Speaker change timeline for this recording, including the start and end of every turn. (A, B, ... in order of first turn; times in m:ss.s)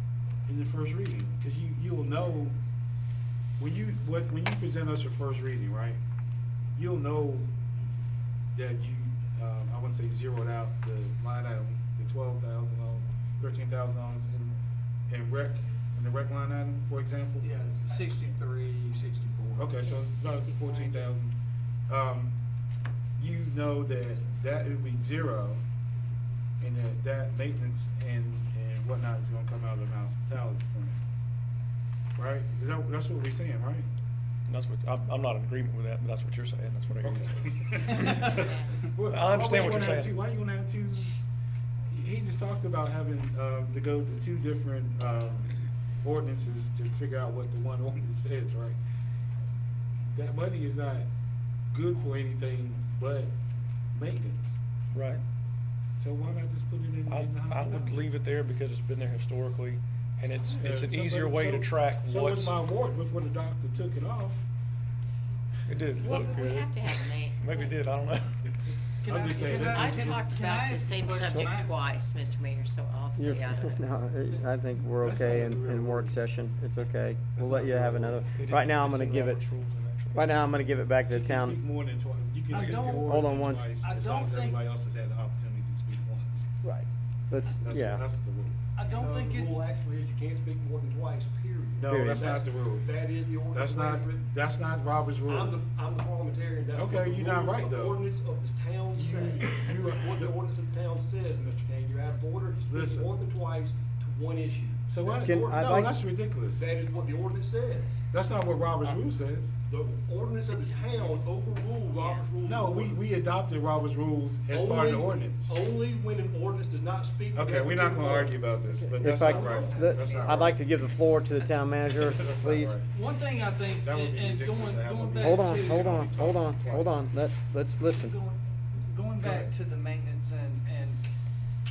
0:00.5-0:02.6 A
0:03.6-0:06.0 A
0:06.8-0:07.5 A
0:08.5-0:14.6 A
0:15.1-0:17.5 A
0:17.4-0:19.9 B
0:19.6-0:21.4 A
0:19.8-0:21.1 C
0:21.9-0:22.4 A
0:23.2-0:25.6 A
0:26.6-0:31.0 A
0:32.2-0:33.9 A
0:34.5-0:38.4 D
0:37.0-0:41.2 A
0:37.9-0:38.5 B
0:38.4-0:38.7 C
0:39.1-0:40.2 D
0:41.9-0:48.8 A
0:50.1-0:51.1 A
0:51.7-0:53.4 A
0:53.9-0:54.6 A
0:54.9-0:55.2 D
0:56.0-0:58.0 A
0:57.1-1:02.6 D
1:00.4-1:04.4 A
1:05.7-1:08.4 D
1:06.0-1:07.8 C
1:09.0-1:11.9 B
1:09.0-1:10.4 A
1:09.5-1:13.8 C
1:13.2-1:19.4 E
1:15.0-1:16.2 A
1:17.4-1:18.2 A
1:18.4-1:20.3 D
1:20.1-1:21.6 E
1:21.1-1:26.5 A
1:22.5-1:24.6 B
1:22.8-1:23.8 E
1:26.6-1:28.1 E
1:27.5-1:28.6 A
1:28.8-1:29.6 B
1:28.9-1:34.3 F
1:31.8-1:32.9 A
1:31.9-1:32.4 E
1:33.5-1:35.6 A
1:35.3-1:45.9 F
1:36.7-1:38.0 A
1:39.0-1:40.3 A
1:42.7-1:43.1 A
1:44.9-1:46.6 A
1:45.2-1:46.0 E
1:46.6-1:48.0 F
1:48.1-1:49.5 A
1:49.7-1:53.0 F
1:50.5-1:52.3 C
1:52.4-1:55.5 A
1:54.5-1:58.4 F
1:57.3-2:01.0 A
1:58.8-2:02.8 E
1:59.0-2:00.5 F
2:02.0-2:02.9 A
2:02.9-2:06.1 B
2:03.8-2:07.0 A
2:05.2-2:08.2 E
2:07.9-2:11.0 B
2:09.2-2:09.5 A